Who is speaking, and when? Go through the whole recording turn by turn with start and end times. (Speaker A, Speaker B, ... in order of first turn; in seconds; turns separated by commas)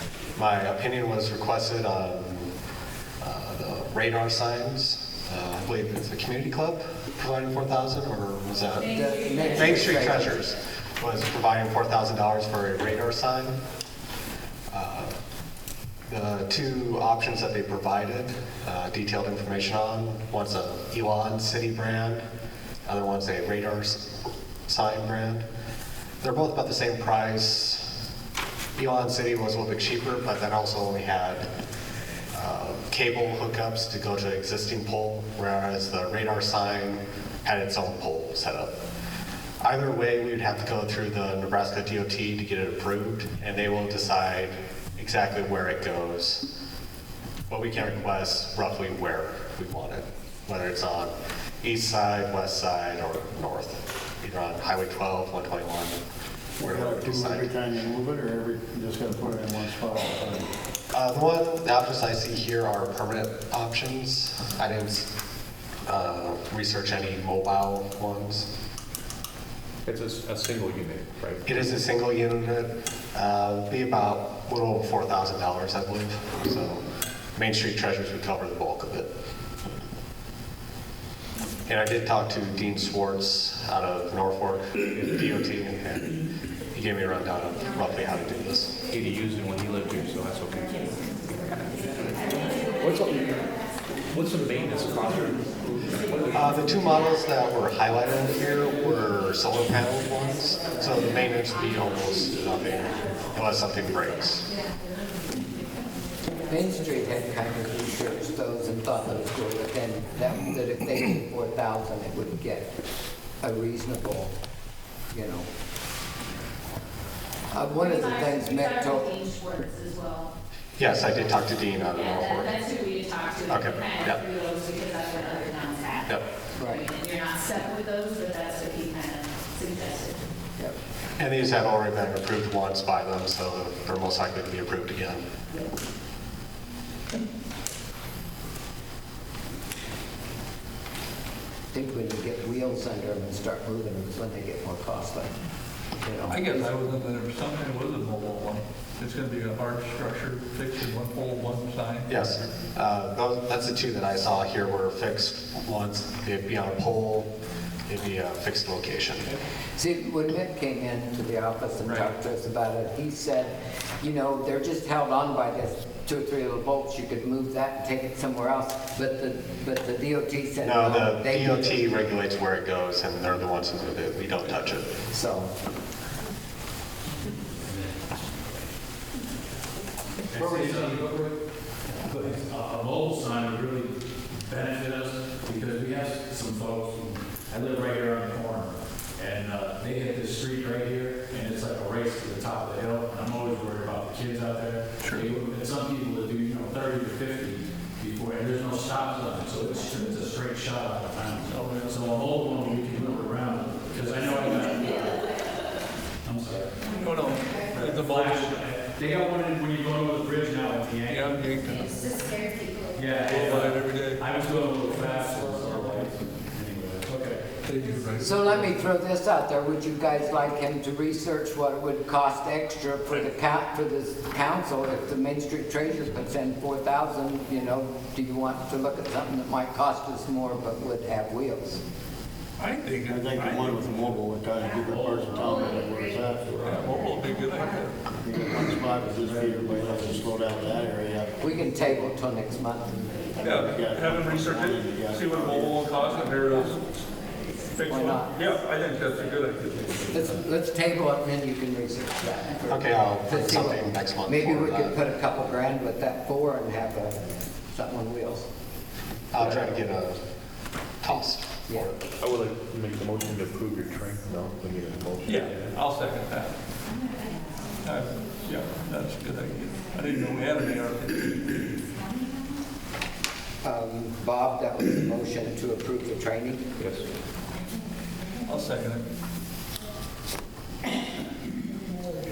Speaker A: 0.3-2.5, Speaker A: 3.2-8.9, Speaker B: 8.8-10.0, Speaker C: 8.8-10.3, Speaker A: 9.4-13.6, Speaker A: 14.7-15.1, Speaker A: 16.1-22.2, Speaker A: 22.9-24.0, Speaker A: 24.7-25.5, Speaker A: 26.2-27.9, Speaker A: 28.8-31.5, Speaker A: 32.3-38.8, Speaker A: 39.6-46.4, Speaker A: 47.5-56.0, Speaker A: 56.6-57.5, Speaker D: 56.6-60.5, Speaker A: 60.9-65.1, Speaker A: 65.9-68.5, Speaker E: 69.8-71.4, Speaker A: 71.5-76.8, Speaker A: 77.3-79.1, Speaker A: 81.7-86.1, Speaker A: 86.7-88.7, Speaker E: 88.9-91.0, Speaker E: 92.3-93.5, Speaker E: 94.1-96.7, Speaker A: 96.3-104.5, Speaker C: 106.5-112.7, Speaker C: 113.4-114.3, Speaker C: 115.1-115.5, Speaker C: 117.5-119.1, Speaker B: 117.6-120.3, Speaker A: 120.8-122.6, Speaker B: 121.9-130.2, Speaker A: 123.5-124.2, Speaker C: 126.5-126.9, Speaker A: 131.2-135.2, Speaker C: 141.7-145.3, Speaker C: 146.0-146.9, Speaker F: 146.3-152.2, Speaker A: 152.1-157.3, Speaker A: 157.9-159.3, Speaker C: 159.8-171.8, Speaker F: 161.8-162.1, Speaker A: 170.6-174.9, Speaker C: 175.1-175.5, Speaker G: 177.7-178.0, Speaker G: 180.3-181.3, Speaker C: 180.4-180.9, Speaker G: 182.0-205.2, Speaker F: 201.4-202.1, Speaker G: 206.2-206.8, Speaker F: 206.9-208.6, Speaker G: 207.7-211.4, Speaker F: 211.1-212.0, Speaker B: 211.7-213.1, Speaker G: 212.9-217.4, Speaker F: 213.2-214.2, Speaker F: 217.6-218.7, Speaker C: 218.2-231.8, Speaker F: 232.6-234.2, Speaker D: 233.1-237.2, Speaker G: 235.0-235.3, Speaker F: 236.6-238.0, Speaker D: 238.2-241.3, Speaker G: 239.8-240.2, Speaker C: 241.4-243.1, Speaker D: 243.3-245.9, Speaker F: 243.4-246.8, Speaker F: 247.7-250.4, Speaker C: 247.9-248.3, Speaker C: 250.1-257.1, Speaker A: 252.7-255.0, Speaker C: 257.7-258.5, Speaker A: 259.3-260.2, Speaker A: 261.0-261.9, Speaker E: 262.2-265.7, Speaker F: 265.2-266.5, Speaker F: 267.8-271.6, Speaker C: 273.6-276.6, Speaker F: 278.4-279.1